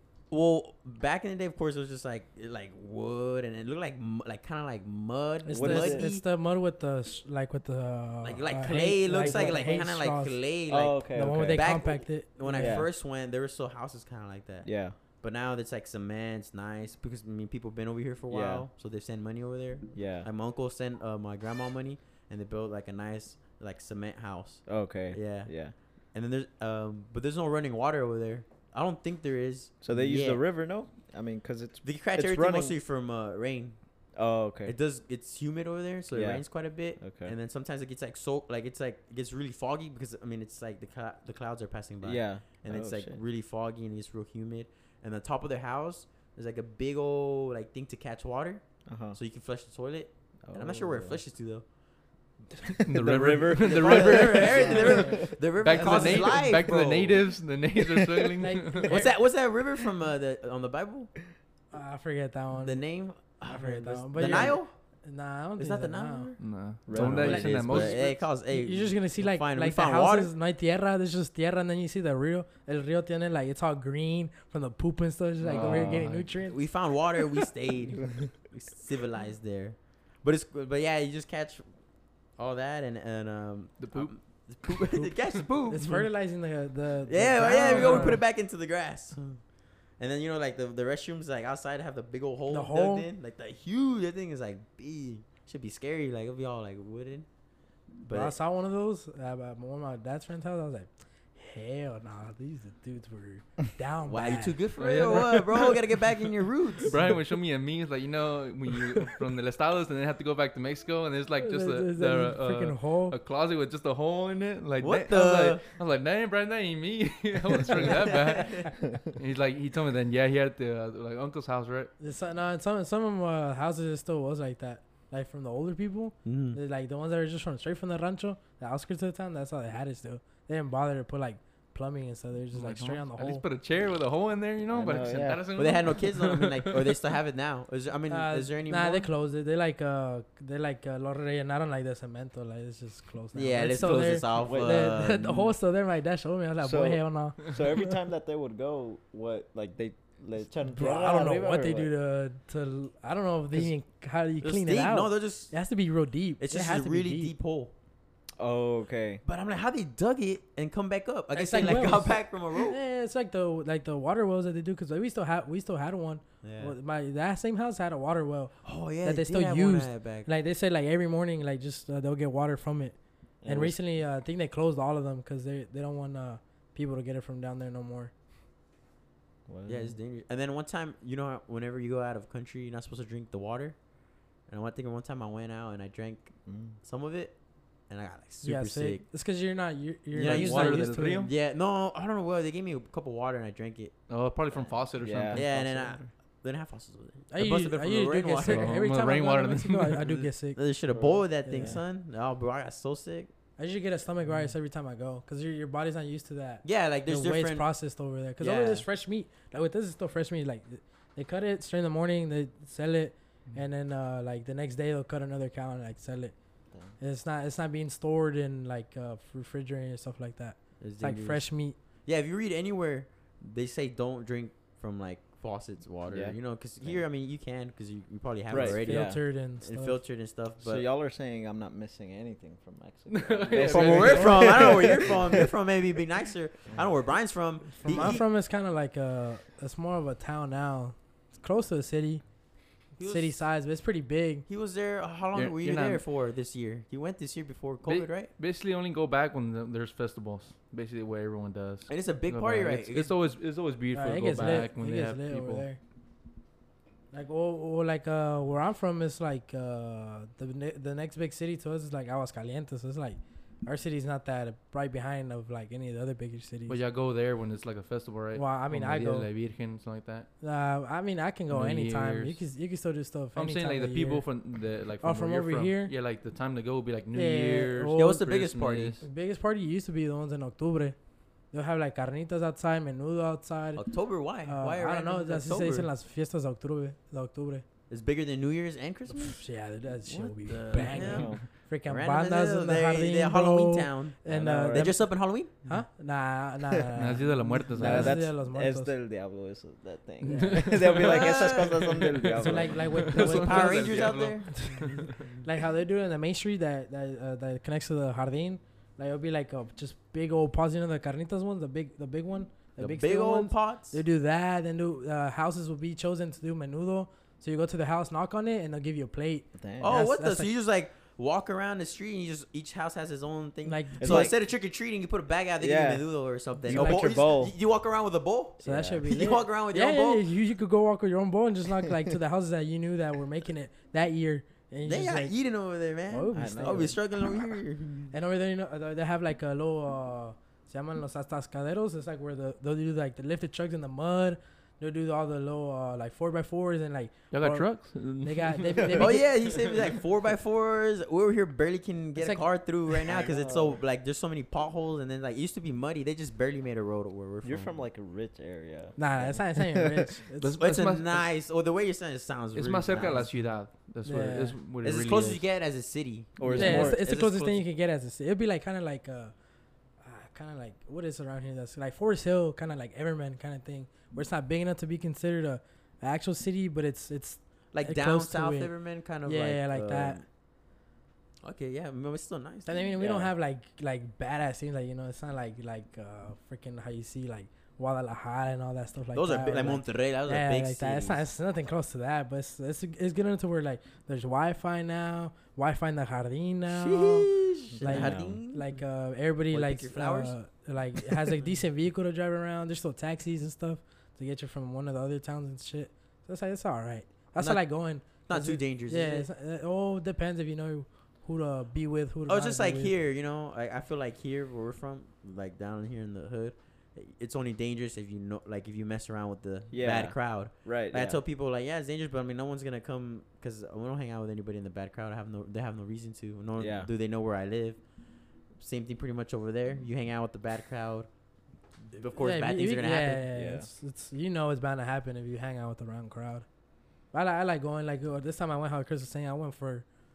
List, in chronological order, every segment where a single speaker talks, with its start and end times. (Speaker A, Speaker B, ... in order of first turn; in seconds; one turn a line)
Speaker A: 0.3-6.2
Speaker B: 5.5-10.3
Speaker C: 5.5-6.1
Speaker A: 8.2-30.4
Speaker C: 9.2-9.6
Speaker C: 10.7-11.8
Speaker B: 11.1-12.8
Speaker C: 12.6-12.9
Speaker C: 14.6-15.0
Speaker C: 18.3-18.6
Speaker C: 19.9-20.3
Speaker C: 24.7-25.7
Speaker C: 29.8-32.8
Speaker A: 31.8-33.8
Speaker C: 34.1-34.7
Speaker A: 34.6-51.6
Speaker C: 36.1-36.4
Speaker C: 37.0-37.3
Speaker C: 42.0-43.2
Speaker C: 48.9-49.2
Speaker C: 50.4-51.2
Speaker D: 52.8-55.0
Speaker C: 52.9-56.1
Speaker A: 53.3-57.2
Speaker B: 54.9-55.1
Speaker D: 55.6-58.9
Speaker B: 55.7-56.2
Speaker B: 58.4-59.0
Speaker A: 58.8-61.1
Speaker B: 61.7-66.3
Speaker A: 62.6-64.7
Speaker C: 64.2-64.5
Speaker A: 65.6-66.4
Speaker D: 66.4-68.0
Speaker C: 66.8-68.0
Speaker A: 67.0-70.3
Speaker B: 67.0-76.7
Speaker C: 75.4-76.3
Speaker D: 75.5-76.2
Speaker A: 75.6-75.9
Speaker A: 76.5-81.7
Speaker A: 82.4-86.1
Speaker D: 83.8-85.4
Speaker B: 85.7-88.2
Speaker A: 87.1-89.4
Speaker A: 90.0-97.3
Speaker B: 92.5-93.1
Speaker A: 98.0-98.3
Speaker B: 98.1-105.3
Speaker A: 104.0-107.0
Speaker D: 104.8-105.4
Speaker D: 106.9-121.9
Speaker B: 111.4-113.2
Speaker A: 114.8-115.6
Speaker A: 117.8-118.7
Speaker B: 122.0-133.4
Speaker A: 126.2-126.6
Speaker D: 132.5-136.9
Speaker C: 134.7-135.4
Speaker A: 135.5-139.1
Speaker B: 138.1-147.9
Speaker A: 143.3-145.3
Speaker C: 144.3-145.5
Speaker C: 146.6-151.9
Speaker B: 150.7-157.3
Speaker A: 154.4-155.5
Speaker A: 156.4-157.7
Speaker C: 158.4-159.2
Speaker A: 159.2-162.8
Speaker B: 161.3-178.1
Speaker A: 166.4-166.7
Speaker A: 168.6-170.3
Speaker C: 173.4-173.8
Speaker C: 179.5-179.9
Speaker A: 179.7-183.8
Speaker A: 184.5-187.3
Speaker C: 186.4-186.8
Speaker A: 187.9-189.0
Speaker B: 188.4-191.3
Speaker A: 190.1-193.9
Speaker D: 190.2-191.3
Speaker D: 194.1-195.9
Speaker C: 195.0-195.8
Speaker A: 195.3-198.7
Speaker B: 197.3-200.6
Speaker D: 198.4-200.3
Speaker A: 200.6-203.3
Speaker C: 200.9-201.8
Speaker B: 201.4-201.8
Speaker B: 203.6-216.3
Speaker A: 206.6-207.7
Speaker A: 208.4-208.8
Speaker B: 217.0-221.8
Speaker A: 220.8-221.5
Speaker A: 222.0-230.8
Speaker C: 226.1-227.0
Speaker C: 228.5-229.2
Speaker B: 228.6-230.0
Speaker C: 230.6-235.5
Speaker D: 233.1-235.1
Speaker A: 233.5-238.2
Speaker B: 237.8-242.2
Speaker A: 242.9-243.4
Speaker B: 243.0-244.4
Speaker A: 244.5-248.3
Speaker D: 245.3-246.0
Speaker D: 247.8-255.6
Speaker A: 251.9-253.1
Speaker B: 253.9-255.8
Speaker B: 257.1-266.8
Speaker D: 266.7-270.3
Speaker B: 268.3-269.3
Speaker B: 270.4-274.2
Speaker D: 271.5-272.4
Speaker D: 273.4-279.0
Speaker B: 275.0-275.9
Speaker B: 277.1-278.2
Speaker A: 277.9-279.0
Speaker B: 279.0-280.9
Speaker B: 281.5-283.8
Speaker A: 283.8-285.9
Speaker B: 284.4-287.6
Speaker A: 287.9-289.4
Speaker B: 289.1-298.9
Speaker A: 290.1-295.6
Speaker C: 290.8-291.4
Speaker C: 294.3-295.0
Speaker D: 296.9-298.2
Speaker C: 297.8-303.1
Speaker D: 300.2-305.1
Speaker B: 300.2-301.0
Speaker A: 301.0-302.0
Speaker B: 302.4-303.9
Speaker A: 303.1-305.4
Speaker B: 304.6-320.5
Speaker A: 312.8-314.0
Speaker C: 319.5-320.0
Speaker A: 319.8-330.2
Speaker B: 323.6-324.3
Speaker C: 324.0-324.4
Speaker C: 325.6-326.0
Speaker C: 326.6-327.5
Speaker B: 326.7-327.1
Speaker C: 328.6-329.0
Speaker B: 328.6-335.3
Speaker A: 334.8-338.1
Speaker B: 336.1-337.0
Speaker C: 336.3-337.0
Speaker B: 338.1-349.2
Speaker D: 347.3-349.0
Speaker A: 349.0-357.7
Speaker B: 352.2-352.5
Speaker C: 353.1-353.8
Speaker C: 357.4-360.1
Speaker B: 359.0-360.6
Speaker D: 360.4-361.2
Speaker A: 360.6-363.3
Speaker D: 362.5-365.4
Speaker B: 364.0-364.6
Speaker A: 364.8-367.6
Speaker C: 366.4-367.0
Speaker D: 366.4-366.8
Speaker B: 366.5-369.3
Speaker B: 370.0-378.7
Speaker A: 377.7-380.2
Speaker B: 379.2-380.2
Speaker A: 381.4-383.3
Speaker B: 382.6-397.3
Speaker A: 389.1-391.2
Speaker A: 396.7-398.8
Speaker C: 397.7-398.4
Speaker B: 397.8-412.9
Speaker A: 399.5-400.3
Speaker A: 401.1-401.4
Speaker A: 407.4-409.3
Speaker A: 412.3-427.8
Speaker C: 419.7-421.2
Speaker C: 426.6-426.9
Speaker A: 428.6-431.1
Speaker A: 431.9-433.2
Speaker B: 432.2-436.4
Speaker C: 433.3-433.7
Speaker B: 437.1-439.9